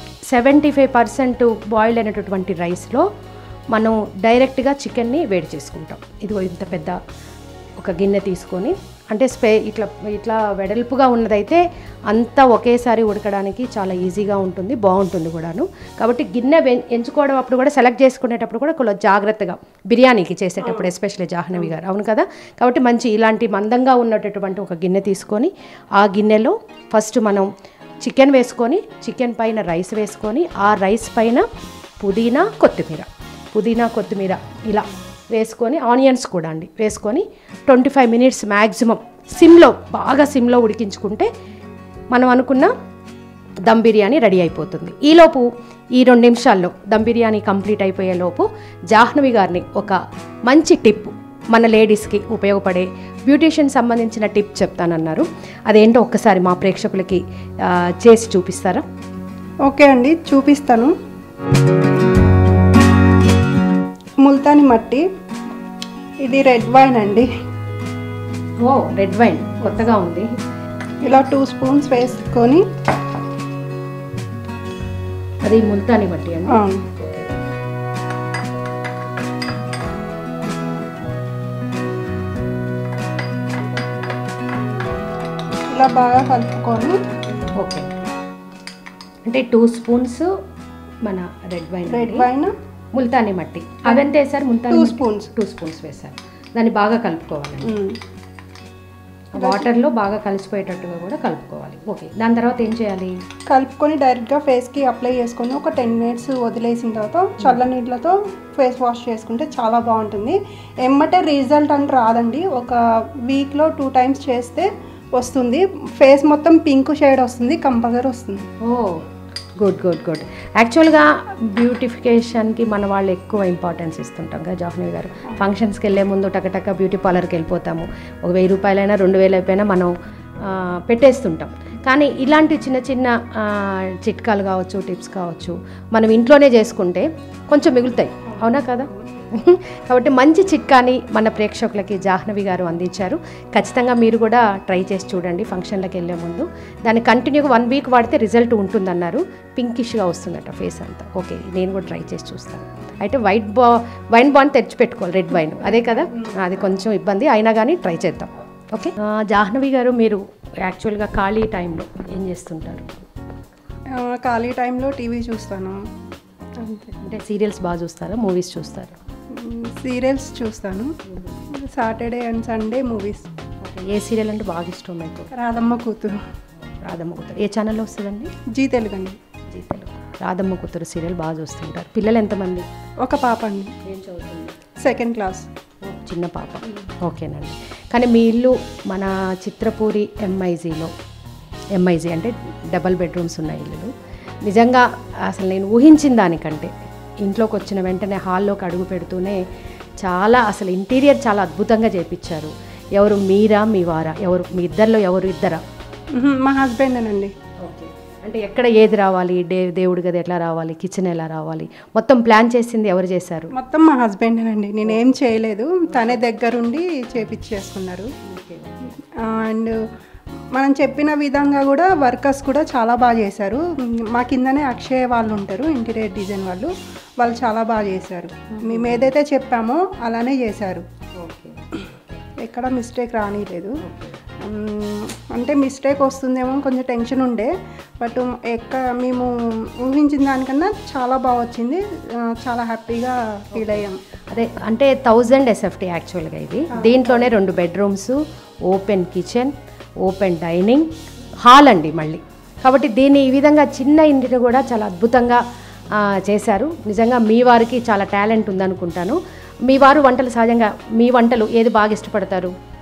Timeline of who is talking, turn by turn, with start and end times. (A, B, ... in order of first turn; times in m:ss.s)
0:00.3-0:03.0 A
0:03.7-0:07.0 A
0:07.8-0:27.5 A
0:20.6-0:20.9 B
0:28.0-0:31.4 A
0:32.0-0:41.3 A
0:42.1-0:42.7 A
0:43.6-0:58.8 A
0:59.6-1:00.9 B
1:04.2-1:05.0 B
1:06.2-1:07.3 B
1:08.6-1:10.3 A
1:11.0-1:12.6 B
1:15.4-1:17.3 A
1:16.5-1:16.8 B
1:25.7-1:27.0 B
1:27.5-1:27.9 A
1:29.2-1:30.3 A
1:31.0-1:32.3 A
1:31.9-1:32.5 B
1:32.9-1:37.7 A
1:34.7-1:35.3 B
1:37.6-1:38.0 B
1:39.4-1:39.7 B
1:39.4-1:43.2 A
1:43.5-1:58.4 B
1:58.6-1:59.0 A
1:59.6-2:42.9 A
2:35.6-2:36.4 B
2:43.9-2:45.8 B
2:46.6-2:46.9 B
2:47.0-2:49.0 A
2:49.3-2:50.9 B
2:51.5-2:53.3 B
2:53.6-2:55.3 A
2:55.3-2:56.2 B
2:56.7-2:58.3 A
2:58.5-2:59.2 B
2:59.5-3:02.6 A
3:03.0-3:03.7 B
3:03.8-3:04.6 A
3:04.8-3:05.5 B
3:05.8-3:10.9 A
3:11.7-3:13.9 A
3:14.4-3:19.4 A
3:20.0-3:25.6 A
3:26.1-3:27.3 B
3:27.6-3:33.5 A
3:33.5-3:38.1 B
3:38.3-3:39.0 A
3:39.2-3:39.8 B
3:40.5-3:50.8 B
3:48.5-3:49.1 A
3:51.2-3:52.2 A
3:52.4-3:53.7 B
3:53.8-3:54.2 A
3:54.4-3:59.3 B
3:59.8-4:04.0 B
4:03.6-4:09.5 A
4:06.7-4:07.3 B
4:10.0-4:10.9 A
4:11.4-4:15.4 A
4:16.0-4:22.5 A